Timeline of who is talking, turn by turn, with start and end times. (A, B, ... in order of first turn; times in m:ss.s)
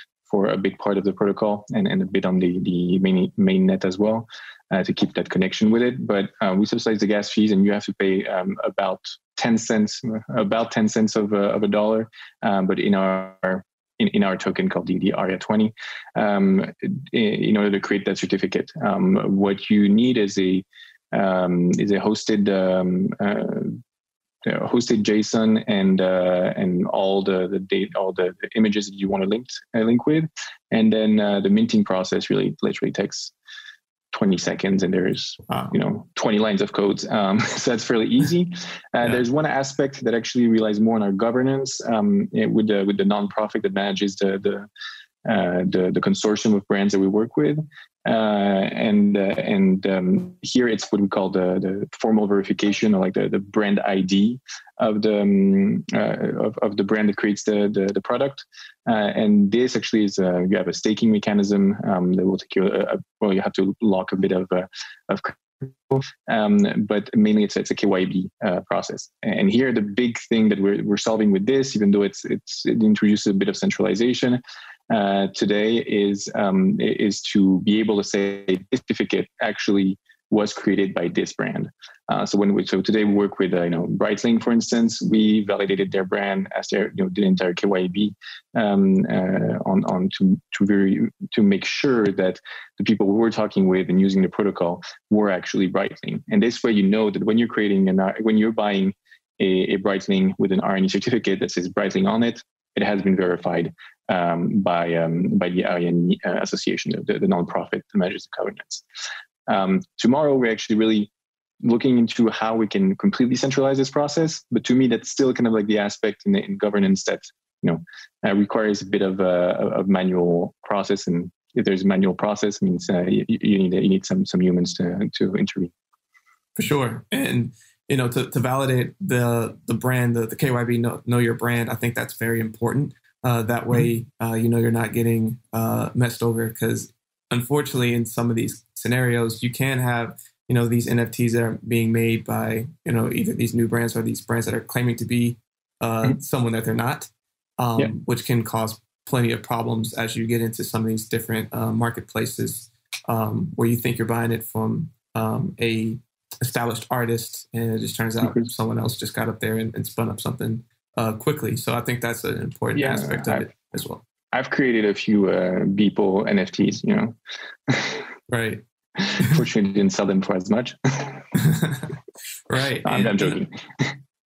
0:00.3-0:23.8 A
0:24.4-0:33.3 A
0:34.1-0:44.7 A
0:35.5-0:35.7 B
0:45.2-1:48.8 A
1:49.5-1:51.1 A
1:51.6-2:05.7 A
2:06.6-2:44.0 B
2:42.7-2:43.4 A
2:44.3-2:48.1 A
2:48.3-2:48.6 B
2:49.0-2:51.3 A
2:51.3-2:51.9 B
2:52.5-2:53.4 B
2:52.8-2:53.9 A